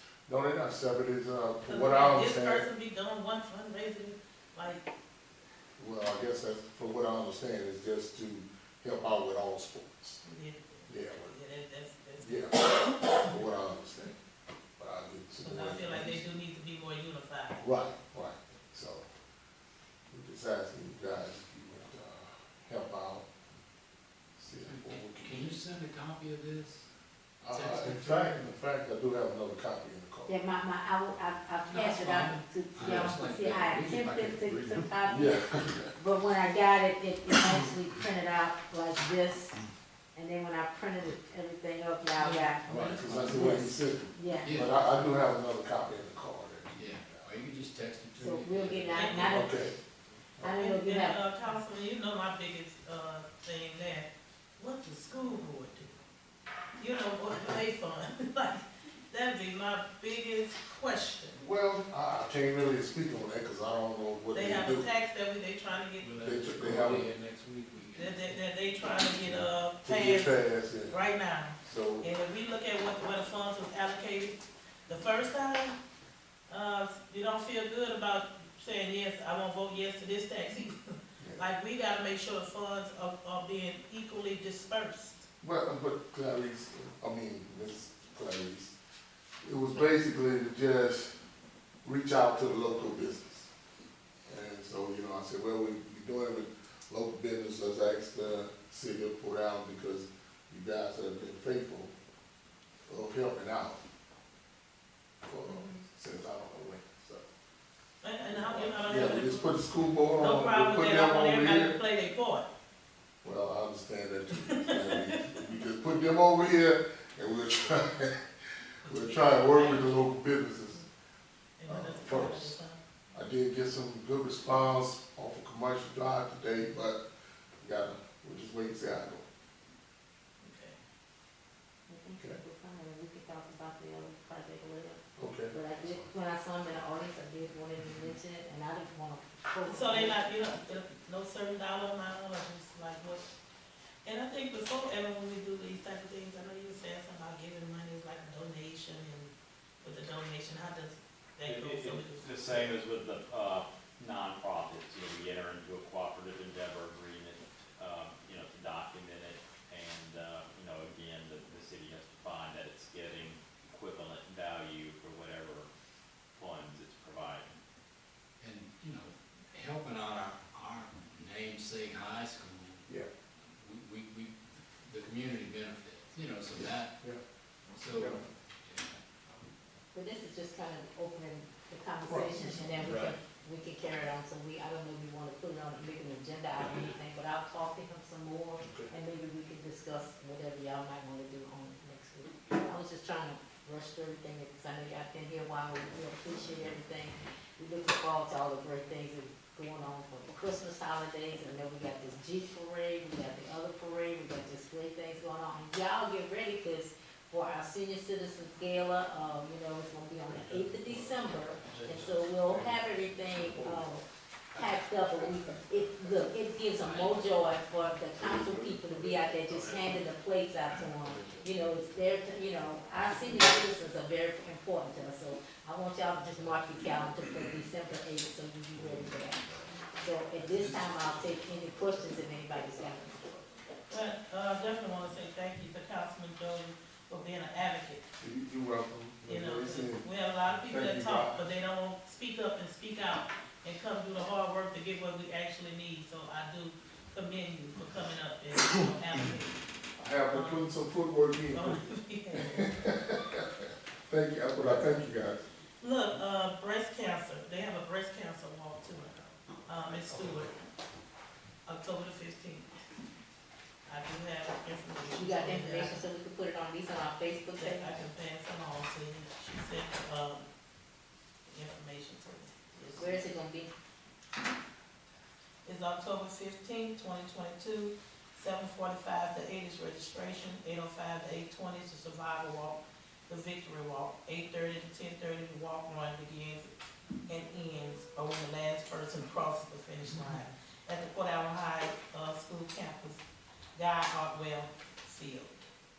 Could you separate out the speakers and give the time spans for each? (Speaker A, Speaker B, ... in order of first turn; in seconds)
Speaker A: 0.3-2.7, 5.8-10.2, 10.9-11.3, 12.2-14.2, 14.8-16.3, 17.6-19.1, 20.1-23.3, 24.4-25.6, 27.4-30.3, 35.1-35.9, 42.7-47.3, 49.2-49.8, 61.4-64.9, 66.2-67.1, 69.8-71.0, 71.6-72.1, 85.4-88.8, 89.4-91.2, 91.8-93.5, 94.2-101.9, 102.9-103.8, 105.2-107.2, 108.3-111.8, 113.2-118.2, 118.9-120.9, 121.7-122.6, 123.1-127.0, 127.6-129.2, 135.2-136.1, 176.6-177.2, 177.9-178.2, 182.1-183.0, 188.6-188.9, 218.2-219.5, 238.2-241.4, 250.0-251.8, 252.6-255.4
Speaker B: 1.7-4.9, 10.2-13.2, 15.4-17.6, 48.9-49.4, 50.4-55.9, 56.8-61.4, 64.3-66.1, 67.9-75.8, 76.5-85.2, 105.5-105.8, 108.0-109.5, 110.2-112.5, 114.7-115.4, 118.8-120.1, 121.6-122.8, 130.4-130.8, 139.6-143.3, 144.0-152.7, 233.9-238.0, 239.2-249.6, 250.3-250.7, 251.5-252.7, 255.8-260.5, 261.7-262.7, 263.9-266.0, 267.6-270.4, 271.5-273.2, 275.6-286.7, 287.3-293.2, 293.8-295.6
Speaker C: 24.6-26.8, 27.5-28.3, 31.7-35.0, 42.2-43.7, 44.4-45.2, 46.8-49.4, 66.0-68.4, 168.4-172.9, 173.5-177.0, 177.7-179.3, 182.8-183.1, 211.6-211.9, 216.8-217.5, 230.4-231.9
Speaker D: 30.3-35.4, 36.0-39.6, 40.1-44.6, 48.2-49.5, 50.4-51.2, 131.9-140.2, 179.9-233.4, 265.1-268.0, 272.9-273.7
Speaker E: 151.4-165.7, 166.3-167.6